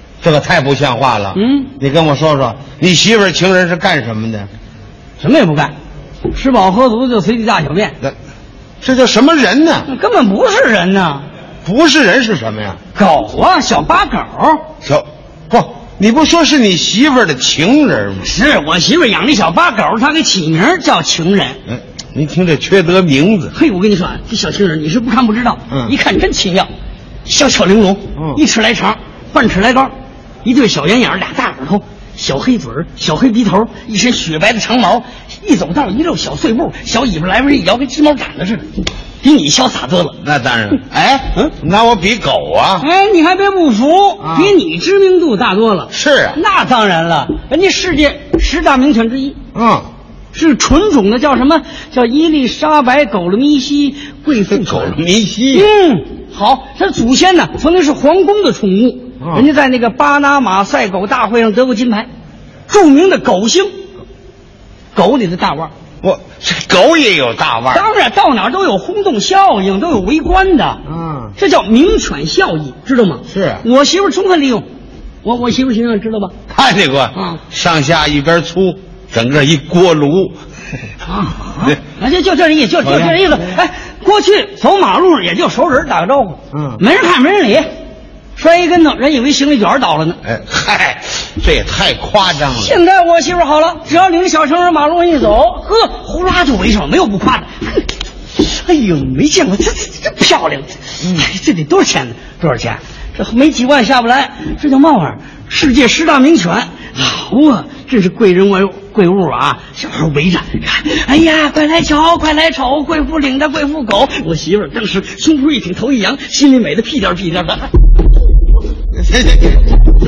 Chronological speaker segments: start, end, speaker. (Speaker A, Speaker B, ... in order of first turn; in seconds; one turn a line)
Speaker A: 0.2-4.5
Speaker B: 1.3-1.7
Speaker B: 5.2-5.7
Speaker B: 6.3-8.0
Speaker A: 8.8-9.9
Speaker B: 9.8-11.2
Speaker A: 11.6-12.8
Speaker B: 12.9-14.7
Speaker A: 14.8-18.3
Speaker B: 18.2-21.6
Speaker A: 21.7-23.5
Speaker B: 23.5-26.7
Speaker B: 27.2-29.9
Speaker B: 30.4-38.7
Speaker B: 39.2-40.2
Speaker A: 40.2-42.9
Speaker B: 42.8-49.4
Speaker A: 44.2-44.5
Speaker A: 45.9-46.4
Speaker A: 49.5-49.9
Speaker B: 50.3-55.0
Speaker A: 54.5-55.7
Speaker B: 55.5-62.1
Speaker A: 59.2-59.5
Speaker B: 62.7-63.7
Speaker B: 64.9-65.7
Speaker A: 66.0-67.9
Speaker B: 67.7-70.8
Speaker A: 70.8-71.3
Speaker B: 71.4-74.7
Speaker A: 73.3-73.6
Speaker B: 75.2-76.3
Speaker A: 76.5-80.4
Speaker B: 77.1-77.4
Speaker B: 81.0-87.7
Speaker A: 82.8-83.5
Speaker A: 86.5-86.8
Speaker B: 88.3-90.2
Speaker A: 90.2-92.8
Speaker B: 92.5-117.7
Speaker A: 118.9-119.7